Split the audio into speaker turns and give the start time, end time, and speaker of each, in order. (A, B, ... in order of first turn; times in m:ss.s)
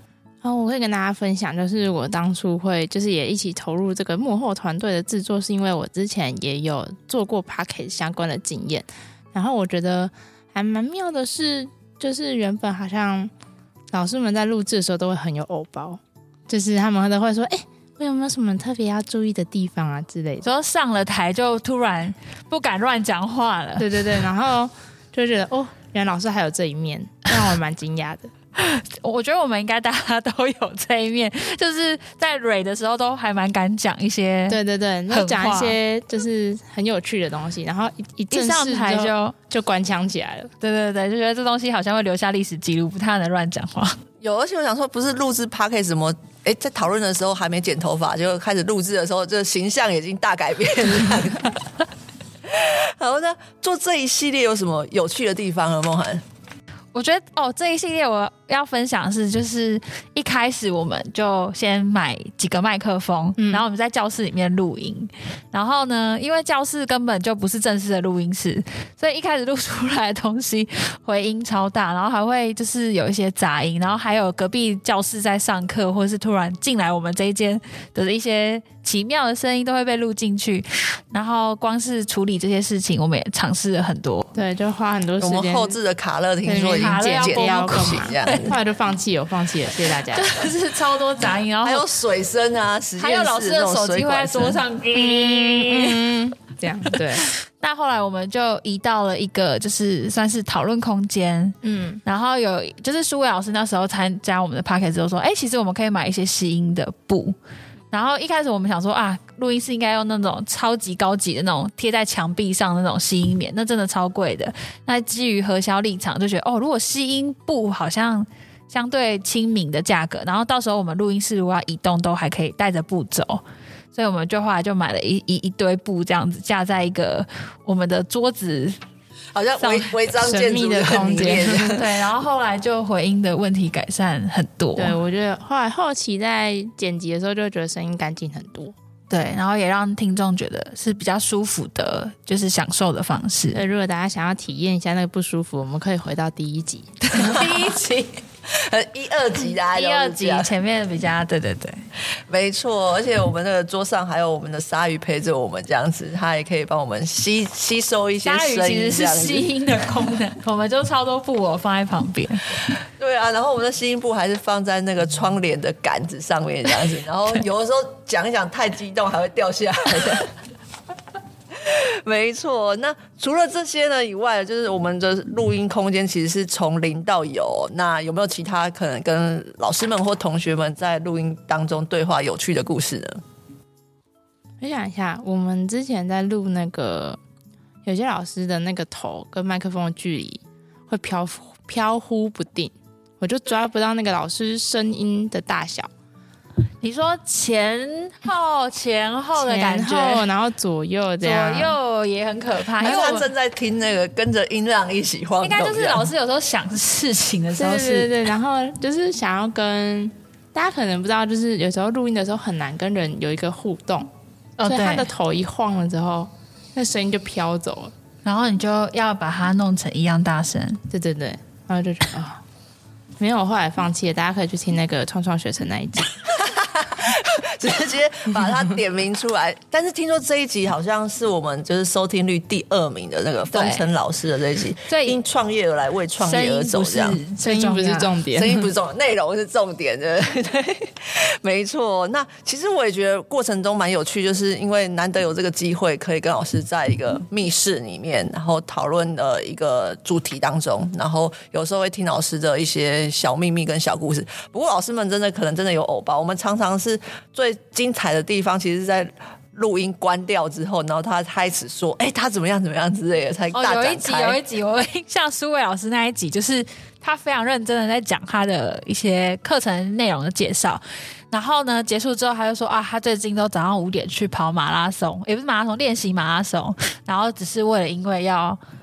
0:00.4-0:13.3 A
0:13.9-0:20.5 A
0:20.4-0:23.9 B
0:23.8-0:28.3 A
0:28.6-0:35.8 B
0:34.5-0:40.5 A
0:38.3-0:39.4 B
0:40.6-0:44.0 B
0:44.2-0:51.6 C
0:52.5-0:56.2 C
0:56.9-1:24.3 B
1:03.4-1:03.7 A
1:24.3-1:25.8 A
1:25.2-1:28.5 C
1:26.4-1:30.5 A
1:26.8-1:28.6 B
1:30.1-1:31.8 B
1:31.6-1:34.6 C
1:33.0-1:36.1 B
1:34.9-1:37.2 A
1:37.6-1:47.4 B
1:41.6-1:42.0 A
1:47.9-2:03.4 B
2:03.9-2:08.8 B
2:09.3-2:11.8 C
2:09.6-2:10.1 B
2:10.2-2:11.8 A
2:11.7-2:15.0 B
2:14.8-2:18.8 A
2:19.1-2:23.6 B
2:23.5-2:27.0 A
2:27.1-2:28.2 B
2:27.2-2:27.5 C
2:28.5-2:30.5 C
2:29.6-2:31.8 B
2:32.3-2:39.5 C
2:38.2-2:42.6 B
2:43.0-2:50.3 C
2:51.5-3:03.2 C
3:04.6-3:07.2 A
3:07.8-3:15.9 A
3:16.8-3:20.3 B
3:19.4-3:21.8 A
3:21.2-3:23.3 B
3:22.8-3:26.1 C
3:25.4-3:28.1 B
3:27.5-3:34.1 A
3:34.6-3:35.1 B
3:34.7-3:37.9 A
3:38.2-3:40.8 B
3:40.9-3:42.4 A
3:43.2-3:46.1 A
3:46.4-3:57.2 C
3:53.5-3:53.9 B
3:54.9-3:55.2 B
3:56.2-3:58.1 B
3:57.4-3:58.7 A
3:58.4-4:24.4 C
4:23.5-4:38.6 B